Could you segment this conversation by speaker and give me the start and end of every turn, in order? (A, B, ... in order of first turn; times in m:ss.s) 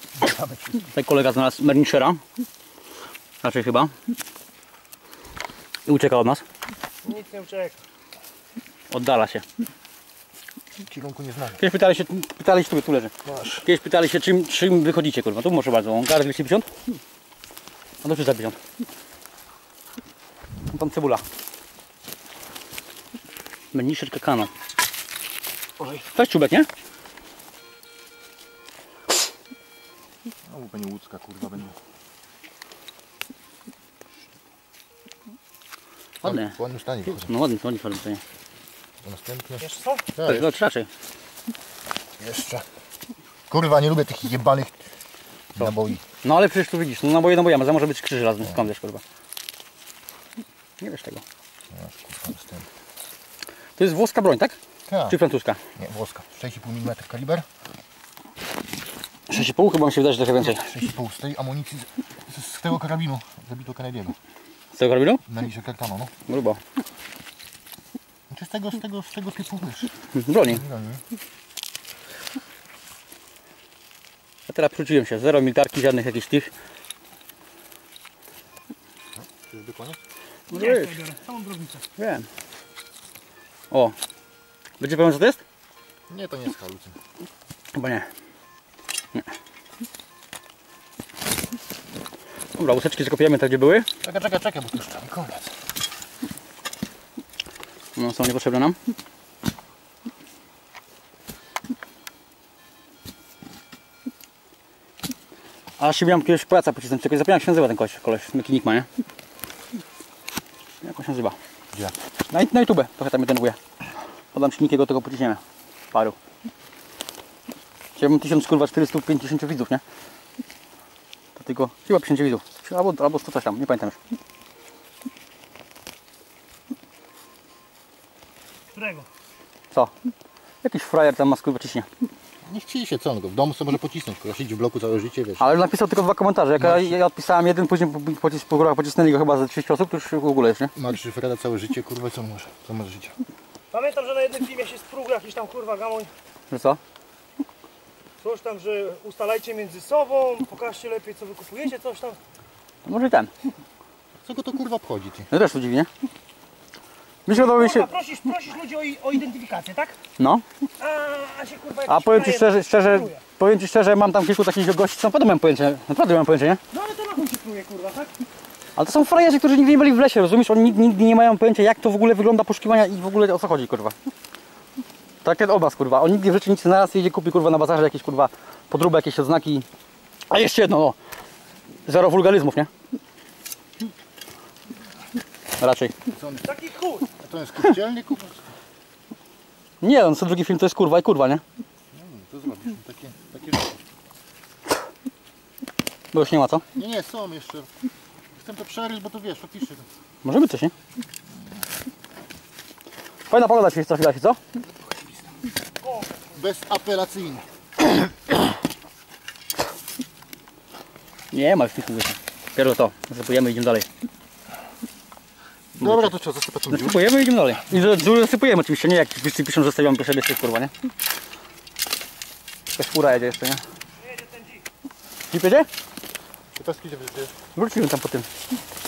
0:00.2-0:00.8 A
0:00.8-0:02.2 B
0:03.4-0:03.9 B
0:05.9-0:06.4 B
0:07.0-0:07.8 C
0:08.9-0:09.4 B
0:10.8-0:11.6 A
0:11.6-0:13.1 B
0:13.2-0:13.6 A
0:13.6-0:16.6 B
0:18.0-0:18.6 B
0:20.7-0:21.2 B
0:23.7-0:24.5 B
0:25.9-0:26.7 B
0:30.4-0:31.7 A
0:36.2-0:37.3 A
0:36.2-0:38.2 B
0:39.0-0:40.5 A
0:39.6-0:40.0 C
0:40.2-0:40.9 B
0:42.2-0:42.6 A
0:43.5-0:44.8 A
0:45.5-0:46.0 A
0:45.6-0:49.0 B
0:50.8-0:51.2 B
0:51.7-0:52.7 A
0:53.8-0:55.6 B
0:54.9-0:55.2 A
0:55.8-0:57.4 A
0:59.3-1:00.7 B
1:00.4-1:04.2 A
1:04.7-1:05.2 B
1:05.2-1:06.1 A
1:06.2-1:06.6 B
1:08.3-1:11.0 A
1:10.1-1:10.6 B
1:14.5-1:16.5 B
1:19.2-1:20.0 A
1:20.5-1:21.0 B
1:20.5-1:21.8 C
1:22.0-1:22.3 B
1:24.8-1:25.4 B
1:26.1-1:27.0 A
1:27.7-1:28.1 B
1:32.6-1:33.9 B
1:34.0-1:35.6 A
1:38.0-1:38.8 B
1:45.8-1:48.9 B
1:50.8-1:51.4 B
1:52.3-1:53.6 B
1:54.3-1:55.4 B
1:58.0-1:59.8 B
2:01.4-2:04.0 B
2:08.7-2:09.1 C
2:10.6-2:11.9 B
2:12.4-2:15.5 A
2:15.4-2:20.7 B
2:16.6-2:17.0 A
2:20.7-2:23.2 A
2:23.7-2:26.1 C
2:26.5-2:26.8 B
2:28.2-2:32.2 C
2:32.8-2:33.3 B
2:34.2-2:35.3 A
2:35.3-2:35.9 B
2:37.2-2:37.9 B
2:37.3-2:40.0 C
2:40.2-2:40.4 B
2:40.8-2:43.2 C
2:41.9-2:46.6 B
2:46.7-2:48.2 C
2:48.8-2:53.9 B
2:55.2-2:59.6 B
3:00.3-3:01.0 B
3:01.8-3:02.7 B
3:05.6-3:05.9 B
3:06.1-3:08.4 A
3:06.5-3:07.0 C
3:09.8-3:11.4 B
3:11.9-3:13.8 A
3:16.1-3:16.6 B
3:16.7-3:17.7 A
3:18.4-3:19.9 A
3:20.2-3:20.7 B
3:23.3-3:24.4 B
3:26.3-3:28.2 A
3:31.3-3:33.9 B
3:35.7-3:37.1 A
3:35.8-3:36.1 B
3:36.7-3:40.7 B
3:42.8-3:43.6 B
3:45.3-3:45.7 B
3:46.6-3:47.3 A
3:47.5-3:48.3 B